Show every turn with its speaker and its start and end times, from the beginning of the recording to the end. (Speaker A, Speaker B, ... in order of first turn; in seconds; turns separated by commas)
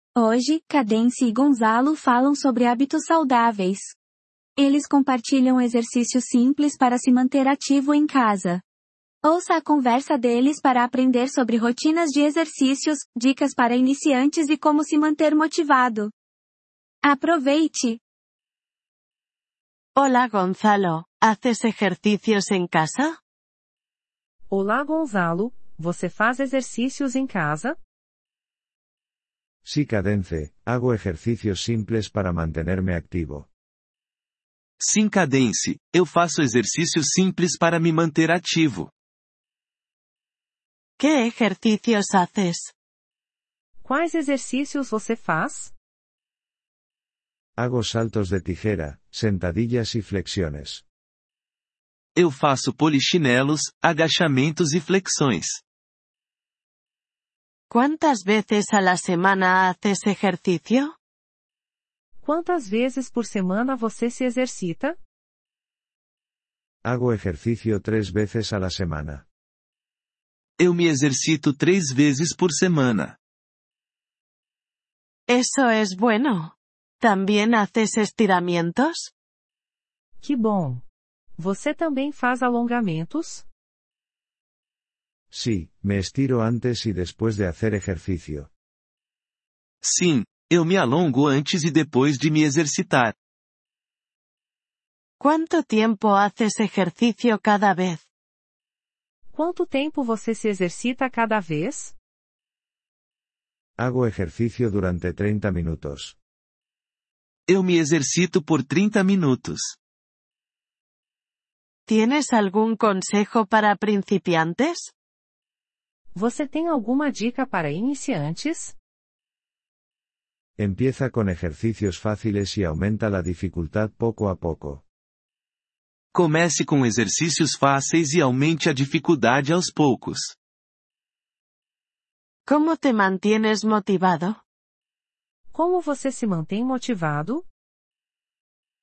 Speaker A: 0.2-3.9, Speaker A: 4.6-8.6, Speaker A: 9.2-16.1, Speaker A: 17.0-18.0, Speaker B: 19.9-23.2, Speaker C: 24.5-27.8, Speaker D: 29.6-33.5, Speaker E: 34.8-38.9, Speaker B: 41.0-42.7, Speaker C: 43.8-45.7, Speaker D: 47.6-50.8, Speaker E: 52.1-55.6, Speaker B: 57.7-60.9, Speaker C: 62.2-65.0, Speaker D: 66.8-69.2, Speaker E: 70.6-73.2, Speaker B: 75.3-79.1, Speaker C: 80.2-80.8, Speaker C: 81.4-83.5, Speaker D: 85.3-88.5, Speaker E: 89.8-93.1, Speaker B: 95.2-98.0, Speaker C: 99.3-101.9, Speaker D: 103.8-106.2, Speaker E: 107.5-109.8, Speaker B: 111.9-114.9, Speaker C: 116.1-118.8, Speaker D: 120.6-124.8, Speaker E: 126.1-130.3, Speaker B: 132.5-134.4, Speaker C: 135.5-137.4